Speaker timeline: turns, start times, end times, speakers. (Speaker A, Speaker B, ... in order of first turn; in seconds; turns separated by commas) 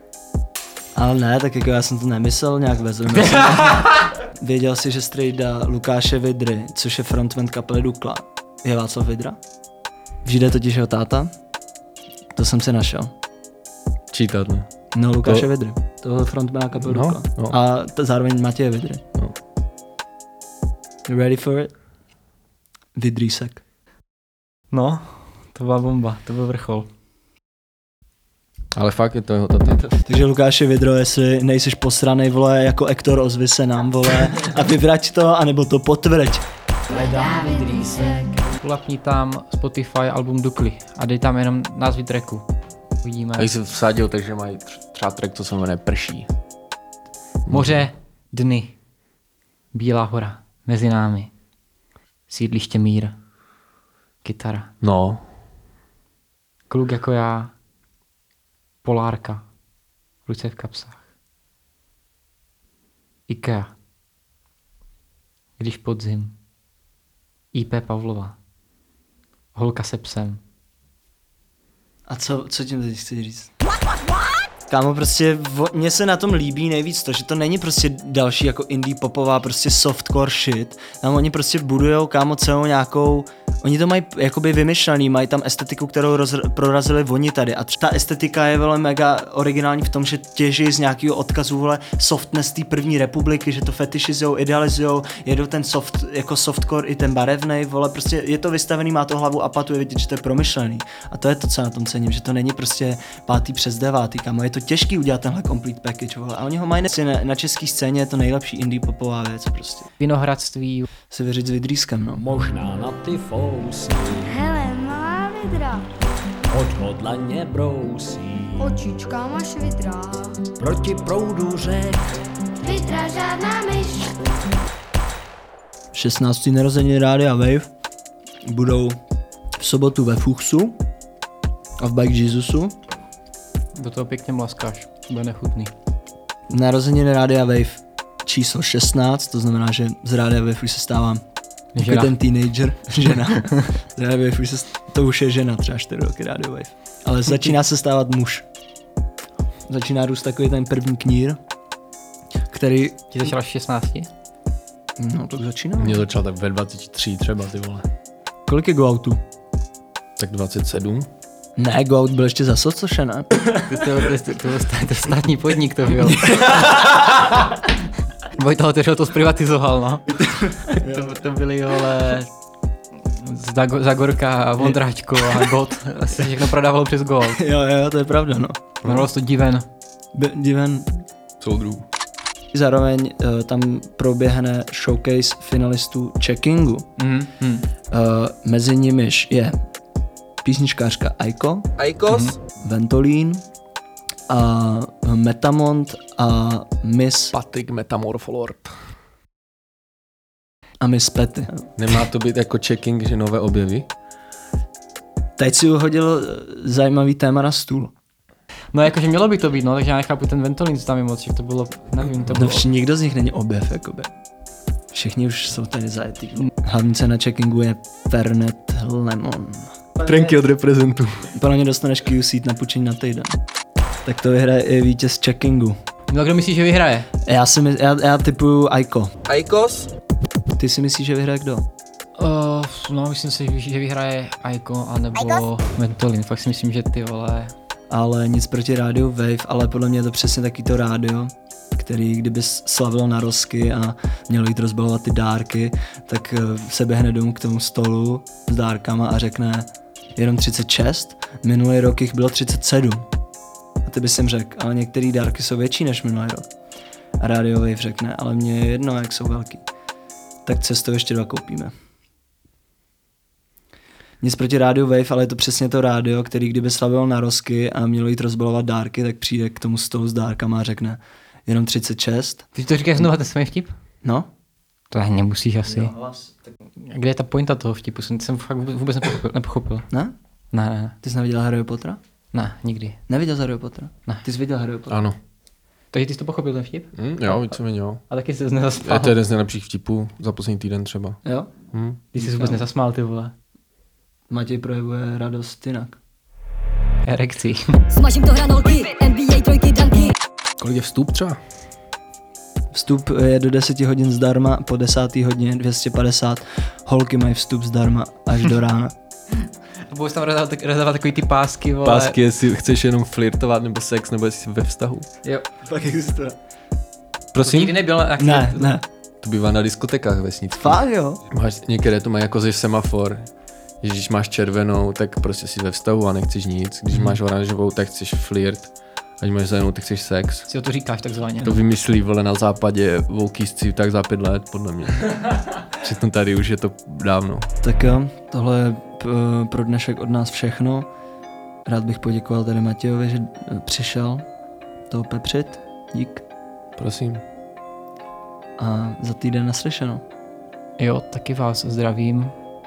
Speaker A: 0.9-9.4, Speaker B: 3.5-3.9, Speaker A: 10.2-11.3, Speaker A: 12.3-13.1, Speaker C: 14.1-14.7, Speaker A: 14.9-19.0, Speaker C: 16.8-17.6, Speaker A: 21.1-21.7, Speaker A: 22.9-23.6, Speaker B: 24.7-26.9, Speaker C: 28.7-29.9, Speaker A: 30.0-36.4, Speaker B: 36.9-42.4, Speaker B: 43.0-43.5, Speaker C: 43.4-46.3, Speaker C: 47.5-47.9, Speaker B: 47.5-48.8, Speaker B: 49.7-51.3, Speaker B: 52.3-53.1, Speaker B: 54.2-54.7, Speaker C: 54.8-55.2, Speaker B: 56.7-57.5, Speaker B: 58.8-59.4, Speaker B: 60.2-61.0, Speaker B: 63.3-63.7, Speaker B: 65.6-66.3, Speaker B: 67.5-68.3, Speaker B: 69.5-70.4, Speaker A: 72.1-73.5, Speaker A: 74.7-109.9, Speaker B: 110.0-110.9, Speaker A: 111.1-112.2, Speaker D: 112.2-114.4, Speaker E: 114.3-115.9, Speaker D: 116.5-118.8, Speaker E: 118.6-120.5, Speaker D: 120.6-122.2, Speaker E: 122.6-124.2, Speaker A: 125.9-127.7, Speaker A: 128.4-129.0, Speaker A: 129.6-130.8, Speaker A: 131.8-132.7, Speaker B: 133.7-135.7, Speaker A: 136.5-141.2, Speaker B: 141.7-142.1, Speaker A: 141.8-148.4, Speaker A: 149.7-151.4, Speaker A: 152.5-153.3, Speaker B: 153.1-154.1, Speaker A: 155.0-156.0, Speaker C: 155.8-157.8, Speaker A: 158.5-159.2, Speaker C: 160.2-161.1, Speaker A: 161.6-163.8, Speaker B: 163.6-167.7, Speaker B: 168.2-172.3, Speaker A: 170.7-171.1, Speaker B: 173.0-177.4, Speaker A: 177.3-178.6, Speaker B: 178.8-179.6, Speaker A: 180.1-181.0, Speaker C: 181.4-181.8, Speaker A: 182.5-186.8, Speaker B: 187.0-187.7, Speaker A: 187.9-189.6, Speaker A: 190.4-191.7, Speaker C: 191.8-192.3, Speaker B: 192.1-192.4, Speaker A: 192.6-193.4, Speaker A: 194.3-197.3, Speaker C: 197.3-198.7, Speaker A: 200.8-201.6, Speaker C: 201.8-203.9, Speaker A: 205.4-207.9, Speaker B: 208.7-212.6, Speaker A: 212.3-214.1, Speaker A: 214.9-219.8, Speaker C: 220.0-221.3, Speaker A: 221.3-223.4, Speaker A: 224.0-225.8, Speaker B: 226.1-227.1, Speaker A: 227.2-229.1, Speaker C: 229.3-229.9, Speaker A: 230.6-231.7, Speaker B: 232.2-237.5, Speaker A: 237.9-253.1, Speaker A: 253.8-256.5, Speaker A: 257.2-259.6, Speaker A: 260.4-261.7, Speaker A: 264.2-272.4, Speaker B: 272.5-273.7, Speaker B: 274.9-275.9, Speaker B: 276.8-279.9, Speaker B: 280.5-280.9, Speaker A: 281.0-282.0, Speaker B: 282.3-283.0, Speaker A: 283.1-285.0, Speaker C: 284.9-285.1, Speaker B: 285.9-287.6, Speaker C: 286.9-288.0, Speaker B: 288.1-289.1, Speaker C: 288.8-291.2, Speaker A: 291.2-291.5, Speaker C: 291.7-292.0, Speaker B: 292.1-293.3, Speaker A: 292.2-292.6, Speaker A: 294.3-296.0, Speaker B: 297.0-297.8, Speaker F: 297.9-300.0, Speaker E: 299.3-300.0, Speaker C: 300.6-301.4, Speaker A: 302.7-308.9, Speaker B: 309.9-312.1, Speaker C: 311.8-315.1, Speaker A: 315.6-316.4, Speaker C: 317.3-317.7, Speaker B: 317.4-318.8, Speaker A: 318.2-318.8, Speaker C: 319.2-323.3, Speaker A: 320.6-321.2, Speaker C: 323.8-330.5, Speaker B: 330.5-331.6, Speaker C: 331.4-337.5, Speaker A: 337.6-340.9, Speaker A: 341.6-344.2, Speaker A: 344.9-346.2, Speaker C: 346.8-347.2, Speaker A: 348.6-350.0, Speaker B: 350.8-352.3